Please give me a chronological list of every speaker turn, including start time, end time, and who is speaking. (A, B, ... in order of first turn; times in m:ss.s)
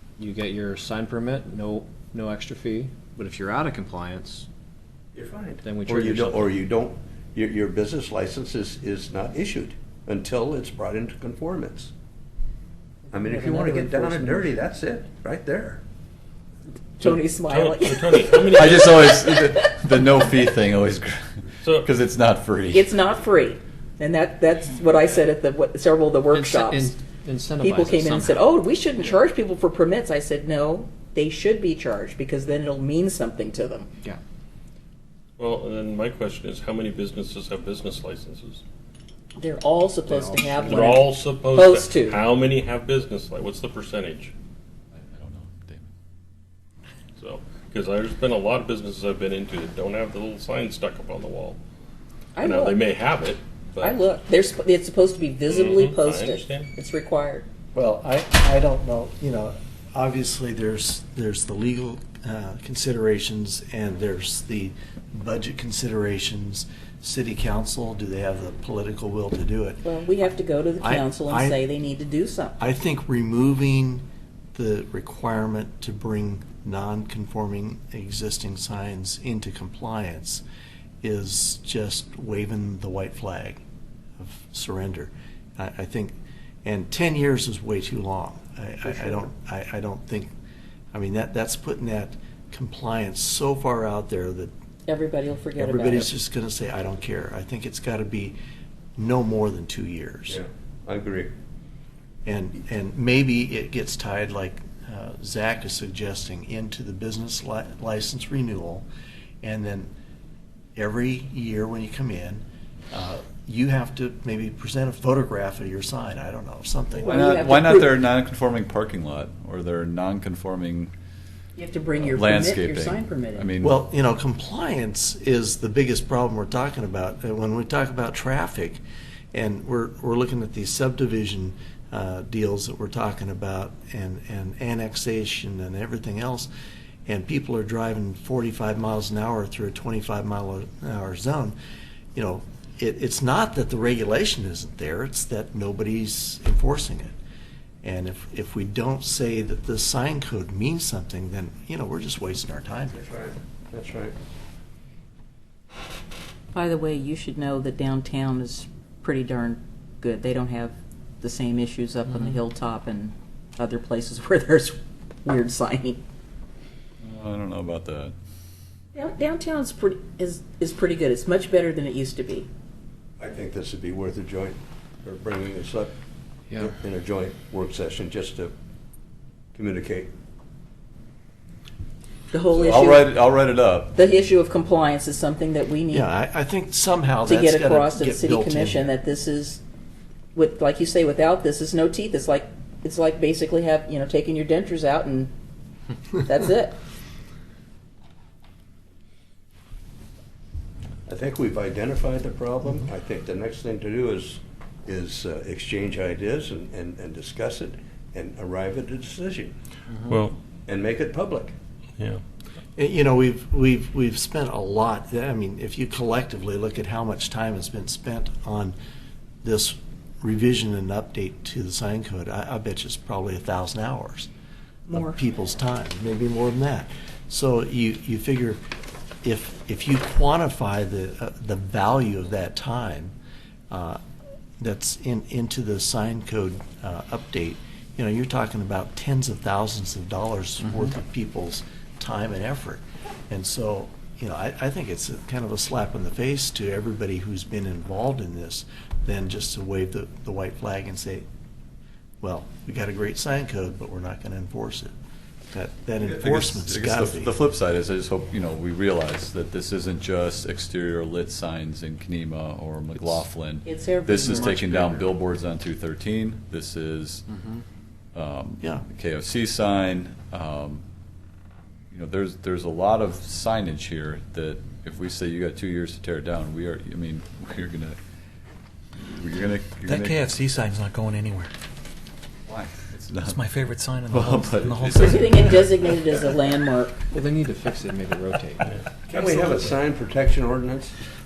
0:00.2-0:04.5 A
0:05.2-0:11.9 B
0:05.6-0:06.6 A
0:13.1-0:14.5 C
0:13.1-0:15.8 B
0:17.0-0:19.7 C
0:17.0-0:19.1 D
0:18.5-0:21.2 E
0:21.7-0:22.9 E
0:22.7-0:27.0 C
0:26.3-0:28.5 A
0:27.6-0:33.9 C
0:35.4-0:38.6 D
0:39.4-0:42.2 C
0:40.1-0:40.9 A
0:40.6-0:44.3 D
0:45.0-0:45.9 E
0:47.2-0:51.6 D
0:52.4-0:52.8 C
0:52.4-0:54.0 D
0:53.8-0:57.5 C
0:55.5-0:56.7 D
0:57.7-1:09.8 F
1:09.8-1:12.5 C
1:10.8-1:11.6 F
1:12.6-1:20.4 F
1:21.0-1:23.6 F
1:24.2-1:30.3 F
1:28.9-1:29.2 C
1:30.9-1:34.5 F
1:34.9-1:36.1 C
1:35.6-1:38.4 F
1:39.0-1:40.4 F
1:40.3-1:41.3 B
1:42.3-1:48.9 F
1:49.4-1:49.9 F
1:50.8-1:57.6 F
1:57.0-1:57.9 C
1:57.1-2:00.9 E
2:01.6-2:03.5 C
2:02.1-2:03.8 E
2:03.6-2:08.8 F
2:09.3-2:16.5 F
2:17.1-2:21.6 F
2:22.2-2:27.1 F
2:27.8-2:33.0 F
2:33.0-2:34.2 B
2:36.5-2:46.0 C
2:47.0-2:48.1 E
2:49.0-2:52.5 C
2:53.2-2:55.9 B
2:56.6-2:58.5 B
2:59.6-3:00.1 B
3:02.3-3:03.1 C
3:02.5-3:03.9 E
3:03.9-3:06.1 C
3:05.9-3:08.9 F
3:07.3-3:09.6 C
3:10.4-3:15.3 C
3:16.2-3:16.8 C
3:21.1-3:29.6 B
3:30.1-3:30.4 D
3:30.7-3:31.6 B
3:32.8-3:38.8 F
3:39.4-3:44.3 F
3:44.9-3:45.2 C
3:44.9-3:48.6 F
3:49.2-3:53.1 F
3:53.7-3:54.0 F
3:54.6-4:11.2 F
4:12.2-4:14.9 F
4:15.5-4:17.4 F
4:16.0-4:27.2 E
4:23.6-4:25.1 C
4:27.3-4:27.6 A
4:28.2-4:30.8 E
4:31.9-4:38.0 E
4:39.0-4:40.4 E
4:39.8-4:41.5 G
4:42.5-4:43.4 E
4:43.3-4:45.6 G
4:44.1-4:45.7 E
4:45.0-4:47.0 C
4:47.1-4:48.8 A
4:49.1-4:51.0 B